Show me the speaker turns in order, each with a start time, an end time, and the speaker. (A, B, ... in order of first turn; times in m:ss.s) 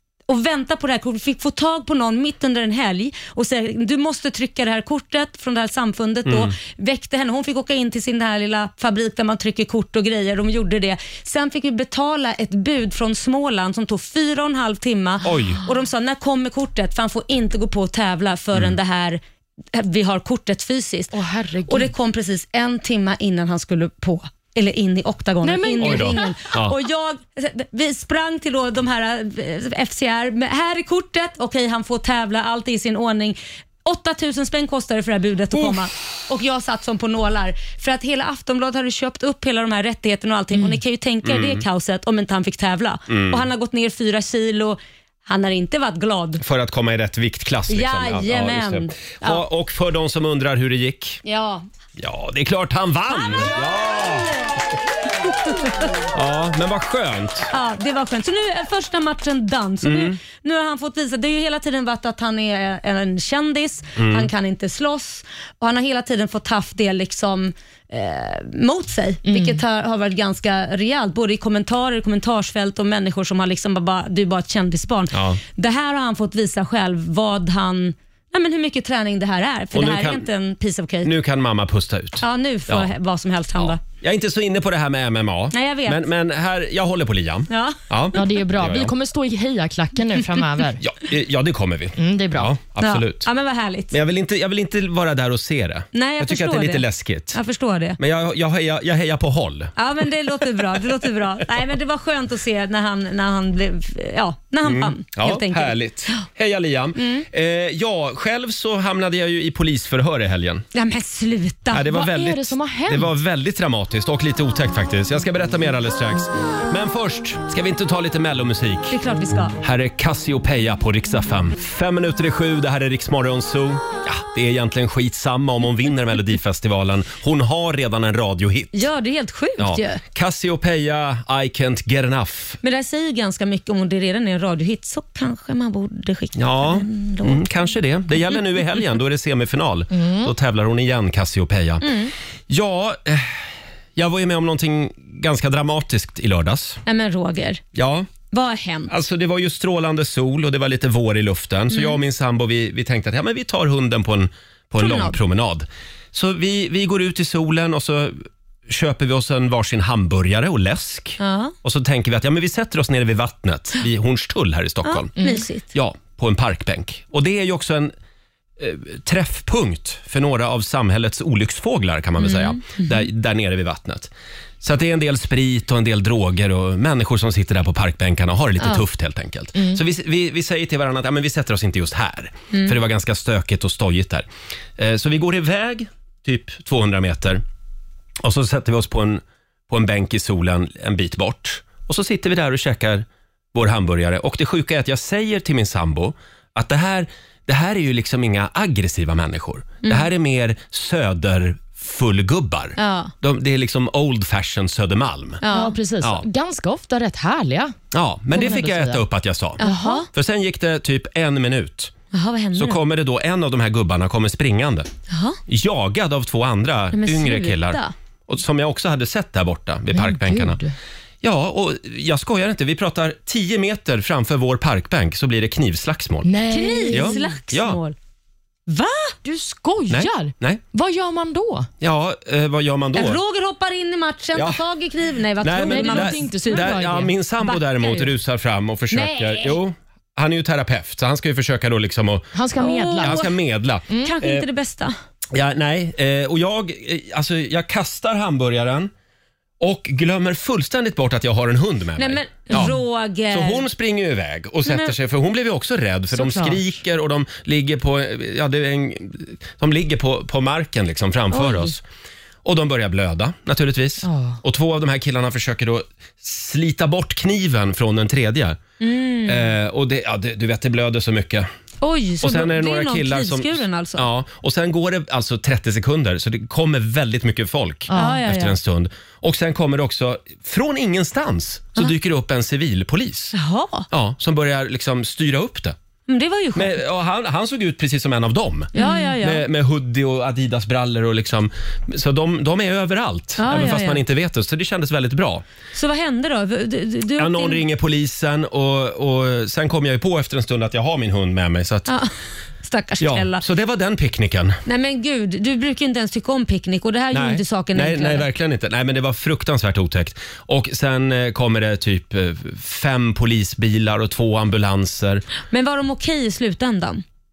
0:00.3-0:19.2 A
0:06.2-0:06.5 B
0:15.2-0:15.6 B
0:19.7-0:21.1 A
0:21.1-0:21.9 C
0:21.7-0:46.4 A
0:25.4-0:26.3 C
0:25.8-0:26.7 B
0:41.2-0:41.6 B
0:43.1-0:43.4 B
0:46.4-0:51.2 B
0:47.7-0:49.4 A
0:51.2-0:51.6 A
0:52.0-0:54.3 B
0:53.1-0:54.6 A
0:55.5-0:55.9 A
0:56.1-0:57.5 B
0:57.5-1:21.1 A
0:59.8-1:00.2 B
1:04.0-1:04.3 B
1:09.2-1:09.6 C
1:15.1-1:15.4 B
1:19.7-1:20.3 B
1:21.0-1:22.9 B
1:22.2-1:23.8 A
1:23.6-1:28.9 B
1:25.5-1:26.0 A
1:27.5-1:27.8 A
1:28.1-1:30.8 C
1:30.8-1:33.3 B
1:32.0-1:32.5 C
1:32.8-1:33.9 A
1:33.9-1:37.4 B
1:35.9-1:38.0 A
1:38.0-1:39.8 B
1:39.8-1:46.2 A
1:44.6-1:50.6 B
1:47.0-1:47.2 A
1:50.7-1:51.8 A
1:51.7-1:59.0 B
1:51.8-1:53.1 C
1:58.9-1:59.6 A
1:59.6-2:08.8 B
2:08.7-2:10.0 A
2:09.6-2:12.6 B
2:12.6-2:17.4 A
2:16.4-2:21.9 B
2:19.9-2:20.3 C
2:21.8-2:22.1 A
2:22.5-2:26.8 B
2:26.8-2:27.6 A
2:27.7-2:28.1 B
2:28.3-2:28.9 A
2:28.9-2:45.1 B
2:31.7-2:32.0 A
2:34.8-2:35.2 A
2:41.2-2:41.5 A
2:44.8-2:45.6 A
2:45.2-2:45.4 C
2:45.7-2:47.9 B
2:48.6-2:54.1 B
2:52.2-2:53.0 A
2:54.6-3:04.2 B
3:04.8-3:07.4 B
3:08.2-3:25.4 B
3:22.8-3:23.1 A
3:25.4-3:25.8 A
3:25.5-3:27.8 C
3:27.9-3:29.6 B
3:28.3-3:29.0 C
3:29.6-3:30.0 C
3:29.6-3:30.1 A
3:30.1-3:31.9 B
3:32.1-3:32.8 A
3:32.5-3:34.9 B
3:35.1-3:35.4 A
3:35.5-3:40.6 B
3:36.9-3:37.9 A
3:39.9-3:40.7 C
3:41.2-3:46.3 B
3:46.2-3:47.3 C
3:46.5-3:47.9 A
3:46.9-3:47.8 B
3:48.7-3:49.2 A
3:49.2-3:51.7 C
3:49.9-3:50.6 B
3:51.8-3:53.2 B
3:52.9-3:56.7 A
3:54.3-3:54.6 B
3:55.4-4:02.3 B
3:55.6-3:57.1 C
3:57.4-3:58.1 A
3:58.9-3:59.6 A
4:02.3-4:03.3 C
4:02.6-4:03.4 A
4:03.0-4:04.4 B
4:03.9-4:04.1 C
4:04.0-4:04.9 A
4:05.3-4:08.9 B
4:09.6-4:12.7 B
4:12.0-4:13.6 A
4:13.3-4:21.8 B
4:14.6-4:14.9 A
4:16.2-4:16.6 C
4:21.3-4:21.7 A
4:22.4-4:28.6 B
4:24.0-4:24.4 C
4:28.8-4:29.5 A
4:29.2-4:31.5 B
4:31.8-4:34.0 A
4:32.2-4:43.4 B
4:37.9-4:38.2 C
4:37.9-4:38.6 A
4:43.3-4:43.9 A
4:43.9-4:45.8 B
4:46.1-4:46.8 A
4:46.5-4:55.4 B
4:48.7-4:49.4 A
4:48.8-4:49.1 C
4:53.4-4:54.0 A
4:55.7-4:57.6 A
4:57.2-5:01.9 B
5:02.6-5:03.4 A
5:03.0-5:04.6 B
5:04.6-5:08.3 A
5:07.1-5:15.2 B
5:15.5-5:17.0 A